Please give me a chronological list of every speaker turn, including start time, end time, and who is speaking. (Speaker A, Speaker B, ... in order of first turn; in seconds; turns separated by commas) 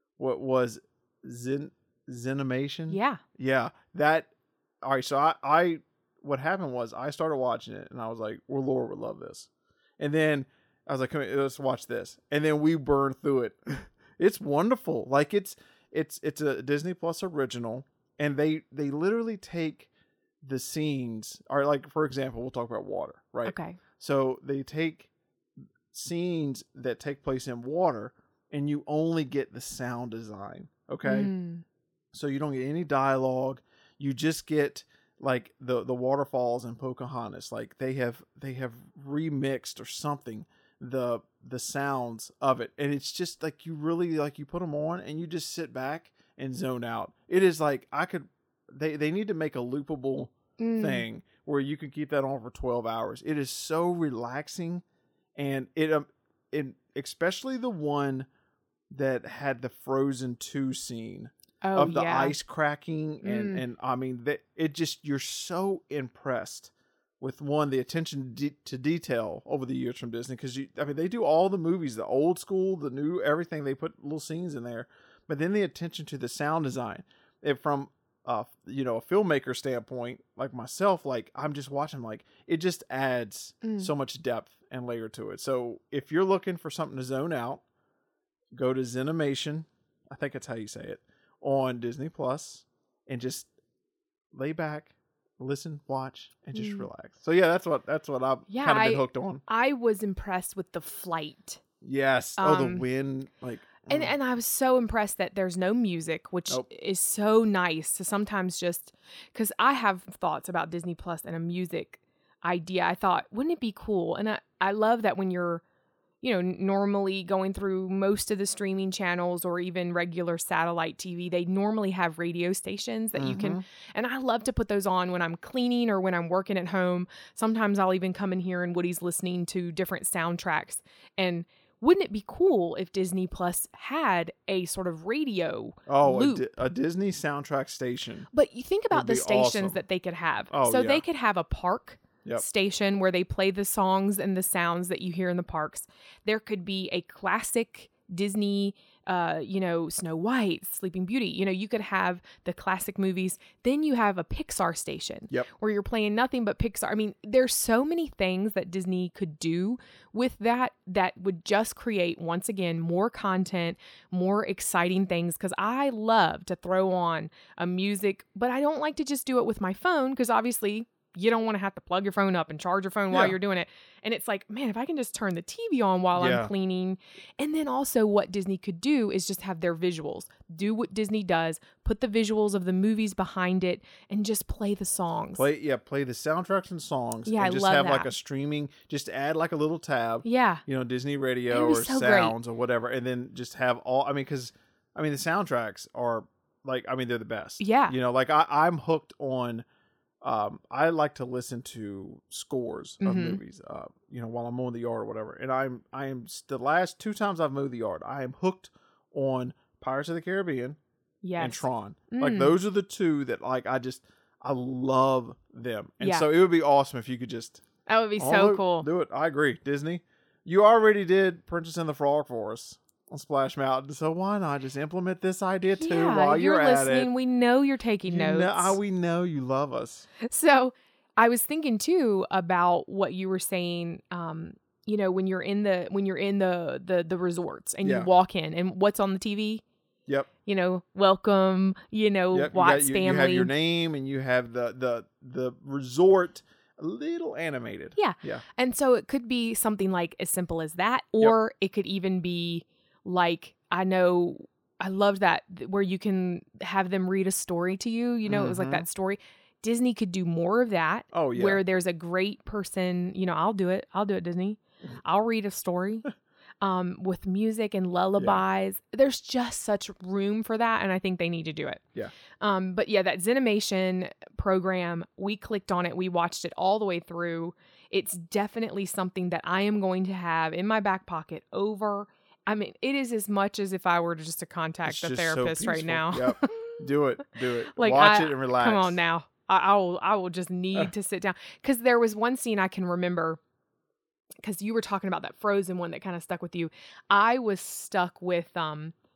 Speaker A: 0.2-4.3, Speaker B: 2.9-3.2, Speaker A: 4.8-19.9, Speaker A: 20.4-25.1, Speaker B: 23.4-23.8, Speaker A: 25.9-31.3, Speaker B: 31.0-31.6, Speaker A: 32.1-54.8, Speaker B: 50.6-51.0, Speaker A: 55.4-58.3, Speaker A: 58.9-87.6, Speaker B: 61.6-62.4, Speaker B: 63.2-63.6, Speaker B: 83.6-83.9, Speaker A: 88.5-93.5, Speaker A: 94.3-99.4, Speaker B: 96.5-96.9, Speaker B: 98.5-101.6, Speaker A: 101.8-104.1, Speaker B: 102.4-102.8, Speaker B: 103.9-115.6, Speaker B: 116.2-136.4, Speaker A: 123.2-123.6, Speaker A: 135.9-138.3, Speaker B: 138.3-185.5, Speaker A: 138.9-139.8, Speaker A: 140.5-141.0, Speaker A: 173.1-173.4, Speaker A: 176.1-176.5, Speaker A: 185.3-199.6, Speaker B: 187.2-188.1, Speaker B: 190.2-190.6, Speaker B: 191.5-192.3, Speaker B: 197.6-197.9, Speaker A: 200.2-210.8, Speaker B: 203.0-203.4, Speaker B: 211.2-212.5, Speaker A: 211.4-217.6, Speaker B: 216.0-216.2, Speaker B: 217.8-218.9, Speaker A: 218.2-227.1, Speaker B: 225.8-228.8, Speaker A: 228.1-230.1, Speaker B: 230.2-239.6, Speaker A: 237.8-238.1, Speaker B: 240.4-243.5, Speaker A: 242.3-248.4, Speaker B: 247.9-266.1, Speaker A: 258.2-258.9, Speaker A: 261.1-261.6, Speaker B: 266.6-271.8, Speaker B: 272.4-286.8, Speaker A: 284.8-289.0, Speaker B: 287.7-293.4, Speaker B: 294.4-298.9